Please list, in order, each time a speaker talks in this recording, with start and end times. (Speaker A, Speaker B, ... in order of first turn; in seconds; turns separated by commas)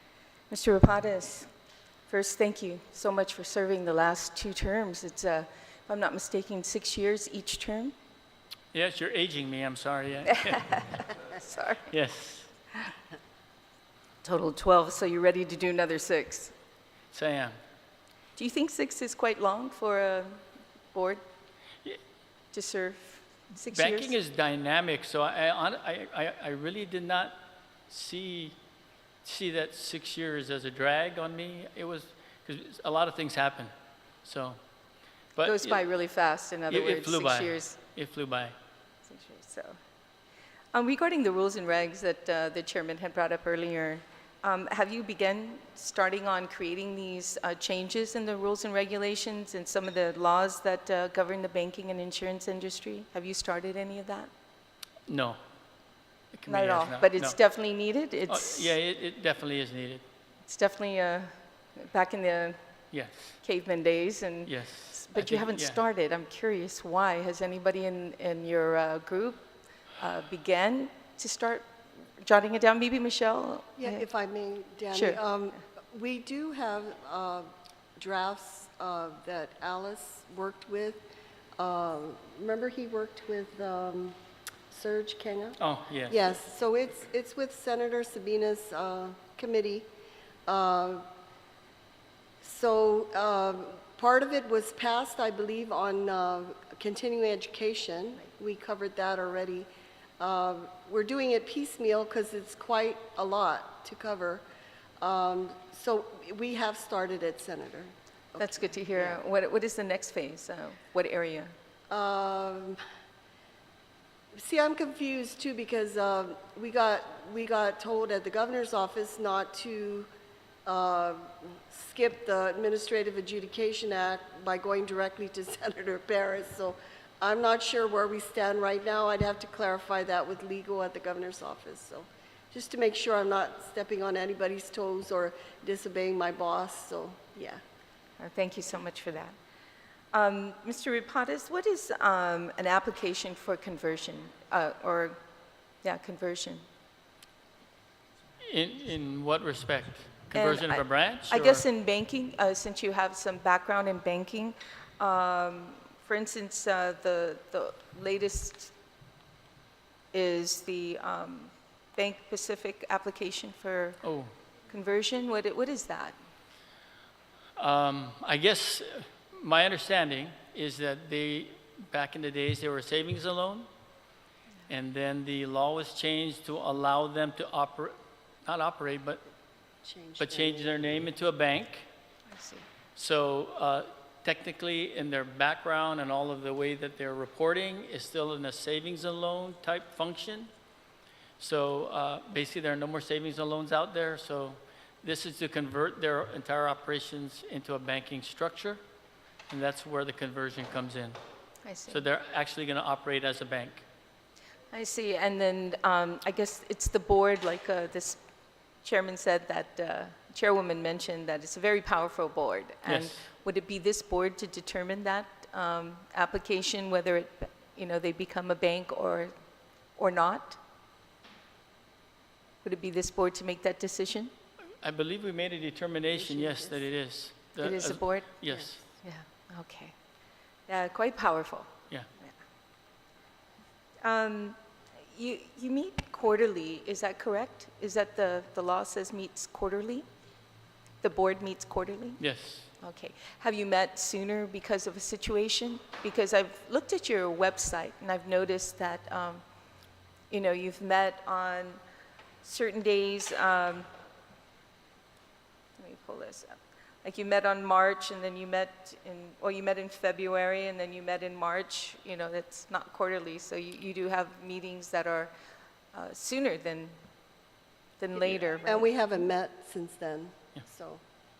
Speaker A: 0.5-1.5, Speaker A: 2.1-7.9, Speaker B: 8.7-11.1, Speaker A: 10.4-11.9, Speaker B: 11.9-12.5, Speaker A: 14.2-16.5, Speaker B: 17.1-17.5, Speaker A: 18.4-21.2, Speaker A: 22.5-24.1, Speaker B: 23.7-28.6, Speaker B: 29.2-33.7, Speaker B: 34.2-34.6, Speaker B: 35.4-35.8, Speaker A: 35.4-37.8, Speaker B: 36.7-38.5, Speaker A: 39.0-39.8, Speaker A: 40.7-54.3, Speaker B: 55.1-55.4, Speaker B: 56.3-57.4, Speaker A: 56.5-58.7, Speaker B: 58.3-60.0, Speaker A: 60.5-62.6, Speaker B: 62.9-63.4, Speaker A: 63.4-69.4, Speaker B: 64.5-65.8, Speaker A: 70.0-71.7, Speaker A: 72.2-74.0, Speaker C: 73.8-81.0, Speaker A: 74.9-75.2, Speaker C: 81.6-84.2, Speaker C: 84.7-85.6, Speaker B: 85.6-86.2, Speaker C: 86.1-89.9, Speaker C: 90.5-91.0, Speaker C: 92.4-104.4, Speaker C: 105.0-109.2, Speaker A: 108.4-111.5, Speaker C: 111.9-112.8, Speaker C: 114.4-120.1, Speaker C: 120.6-137.6, Speaker A: 138.2-139.3, Speaker A: 140.1-145.2, Speaker A: 145.8-146.6, Speaker B: 148.5-151.6, Speaker A: 150.3-158.7, Speaker A: 160.1-164.0, Speaker B: 164.0-164.3, Speaker A: 164.7-166.2, Speaker B: 167.6-173.7, Speaker B: 174.7-177.9, Speaker B: 178.5-179.2, Speaker C: 179.8-180.8, Speaker B: 180.2-181.9, Speaker A: 182.3-182.7, Speaker B: 183.0-190.5, Speaker B: 191.4-198.8, Speaker B: 199.5-201.2, Speaker A: 201.7-202.0, Speaker B: 201.9-203.8, Speaker A: 204.7-208.2, Speaker A: 208.8-219.3, Speaker B: 212.8-213.2, Speaker A: 220.0-220.6, Speaker A: 222.6-224.3, Speaker B: 224.8-228.8, Speaker C: 226.3-226.8, Speaker A: 227.6-229.9, Speaker A: 230.7-232.3, Speaker A: 234.0-240.1, Speaker A: 241.0-242.2, Speaker B: 242.2-242.7, Speaker A: 242.8-249.4, Speaker A: 250.3-251.8, Speaker A: 252.4-253.9, Speaker A: 255.8-265.3, Speaker A: 265.9-267.0, Speaker A: 268.0-268.9, Speaker C: 268.2-271.0